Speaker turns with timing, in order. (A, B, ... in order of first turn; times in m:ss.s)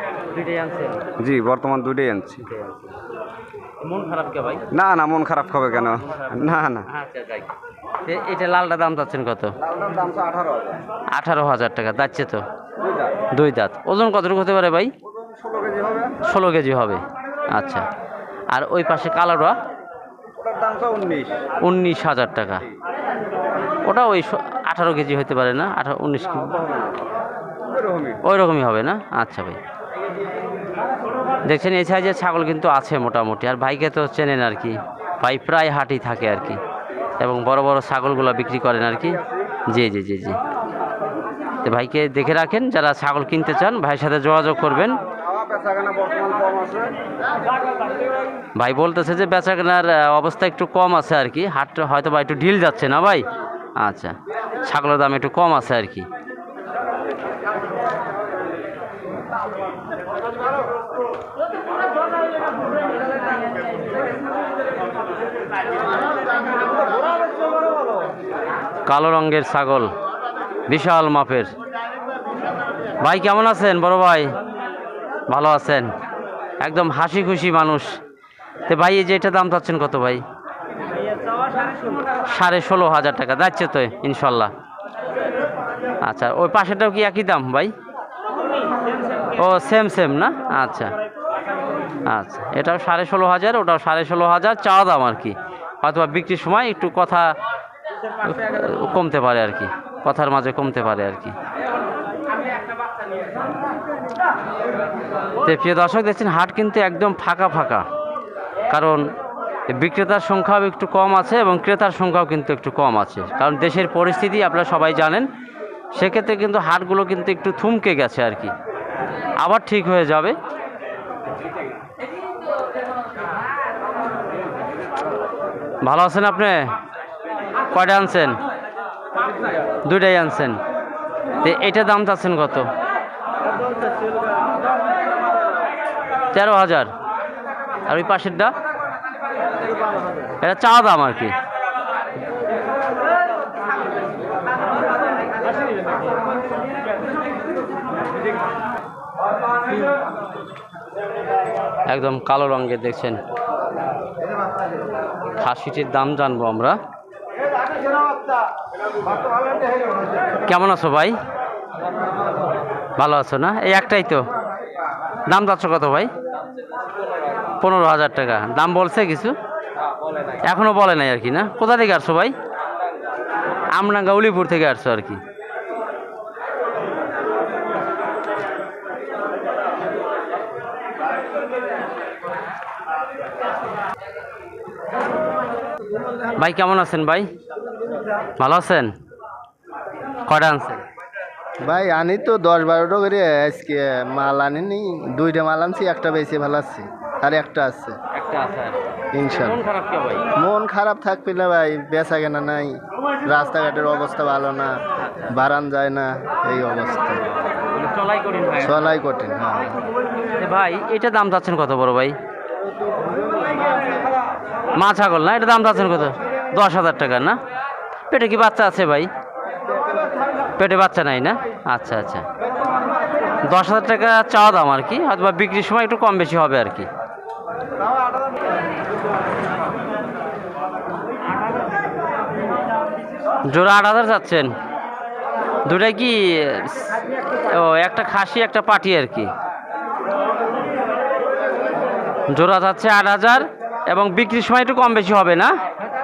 0:00.3-0:01.1 A
0:01.2-0:02.4 B
0:02.4-0:02.9 A
0:03.8-0:04.6 A
0:04.7-0:06.8 B
0:06.0-0:07.5 A
0:08.0-0:09.5 A
0:09.7-0:10.7 B
0:11.1-0:12.4 A
0:12.8-0:13.1 B
0:13.3-0:14.9 A
0:15.2-0:16.1 B
0:16.2-0:17.9 A
0:18.5-0:19.6 A
0:20.4-0:21.3 B
0:21.6-0:22.7 A
0:23.8-0:26.6 A
0:27.8-0:28.1 B
0:28.2-0:29.6 A
0:31.4-0:36.6 A
0:37.2-0:40.4 A
0:41.6-0:45.0 A
0:45.2-0:46.9 B
0:48.6-0:53.2 A
0:53.8-0:56.1 A
1:08.8-1:09.9 A
1:10.7-1:11.5 A
1:13.0-1:14.3 A
1:15.3-1:15.9 A
1:16.6-1:18.0 A
1:18.7-1:20.2 A
1:22.2-1:24.5 A
1:26.0-1:27.7 A
1:29.3-1:31.0 A
1:32.0-1:37.3 A
1:38.2-1:41.4 A
1:45.4-1:47.8 A
1:48.7-1:49.1 A
1:49.7-1:55.3 A
1:55.9-1:58.5 A
1:59.4-2:00.4 A
2:05.8-2:06.6 A
2:07.7-2:08.4 A
2:09.8-2:10.6 A
2:11.4-2:12.7 A
2:16.3-2:16.9 A
2:17.9-2:18.5 A
2:20.4-2:21.4 A
2:31.9-2:33.2 A
2:35.4-2:36.8 A
2:40.4-2:41.2 A
2:43.0-2:44.3 A
2:45.3-2:46.1 A
2:47.6-2:49.4 A
2:50.4-2:52.3 A
2:53.7-2:55.2 A
3:06.4-3:07.3 A
3:08.4-3:08.9 A
3:10.2-3:10.8 A
3:11.6-3:17.9 C
3:18.1-3:20.3 A
3:19.1-3:19.6 C
3:20.4-3:22.8 C
3:23.3-3:24.7 C
3:25.3-3:27.2 C
3:27.7-3:28.9 A
3:28.6-3:29.8 C
3:30.3-3:32.2 A
3:34.8-3:37.4 A
3:38.1-3:39.1 A
3:40.6-3:42.2 A
3:43.4-3:46.9 A
3:53.5-3:54.5 A
3:55.6-3:59.3 A
4:02.3-4:05.6 A